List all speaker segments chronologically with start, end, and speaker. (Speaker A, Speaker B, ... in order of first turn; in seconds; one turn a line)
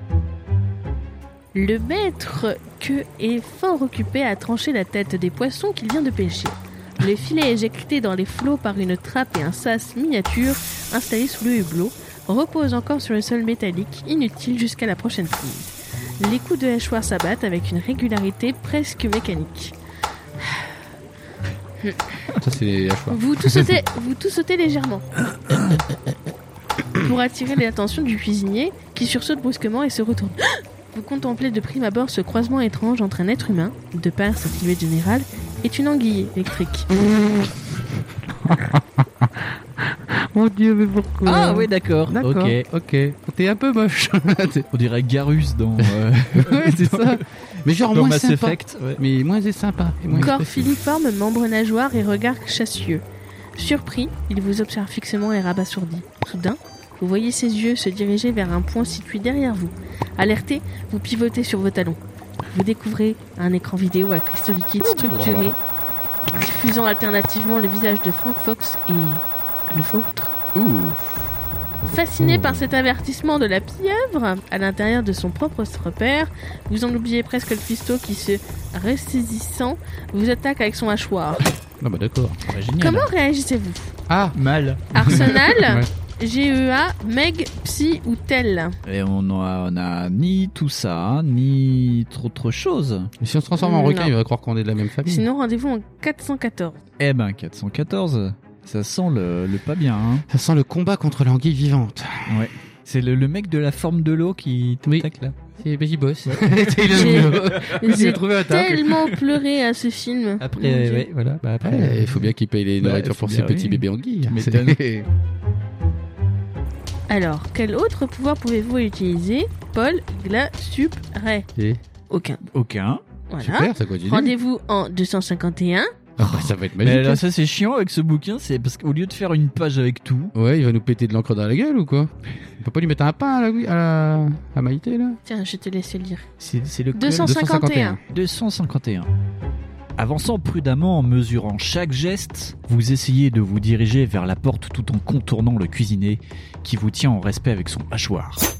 Speaker A: 1.5-19.7
Speaker A: 20.4-20.7
Speaker B: 22.3-23.7
Speaker A: 23.1-25.0
Speaker C: 25.5-25.8
Speaker A: 26.9-36.9
Speaker B: 37.0-37.5
Speaker B: 38.2-44.7
Speaker C: 41.2-42.6
Speaker C: 44.7-49.0
Speaker B: 45.8-50.7
Speaker C: 50.1-50.4
Speaker A: 50.2-53.0
Speaker A: 53.5-62.0
Speaker A: 62.5-65.6
Speaker C: 64.8-65.5
Speaker A: 66.3-70.3
Speaker C: 70.5-71.3
Speaker B: 71.9-72.5
Speaker A: 71.9-81.5
Speaker B: 81.8-82.4
Speaker C: 82.5-83.1
Speaker A: 82.8-83.9
Speaker B: 84.1-84.4
Speaker C: 84.3-85.4
Speaker B: 84.9-85.9
Speaker A: 84.9-88.8
Speaker C: 88.8-93.1
Speaker B: 93.2-95.3
Speaker A: 93.6-94.1
Speaker A: 95.0-96.8
Speaker C: 97.0-100.2
Speaker B: 100.3-102.5
Speaker C: 102.3-105.4
Speaker B: 104.8-109.2
Speaker C: 106.2-108.1
Speaker A: 106.9-111.1
Speaker C: 110.4-115.0
Speaker B: 111.6-114.8
Speaker A: 117.1-121.5
Speaker B: 121.5-121.8
Speaker A: 122.1-122.4
Speaker C: 122.5-123.0
Speaker A: 123.3-125.9
Speaker B: 123.4-124.3
Speaker B: 126.2-127.2
Speaker C: 126.2-130.3
Speaker B: 130.3-135.2
Speaker A: 135.2-136.2
Speaker C: 136.4-137.3
Speaker A: 136.9-138.0
Speaker B: 137.2-138.0
Speaker C: 138.1-139.1
Speaker C: 140.0-148.4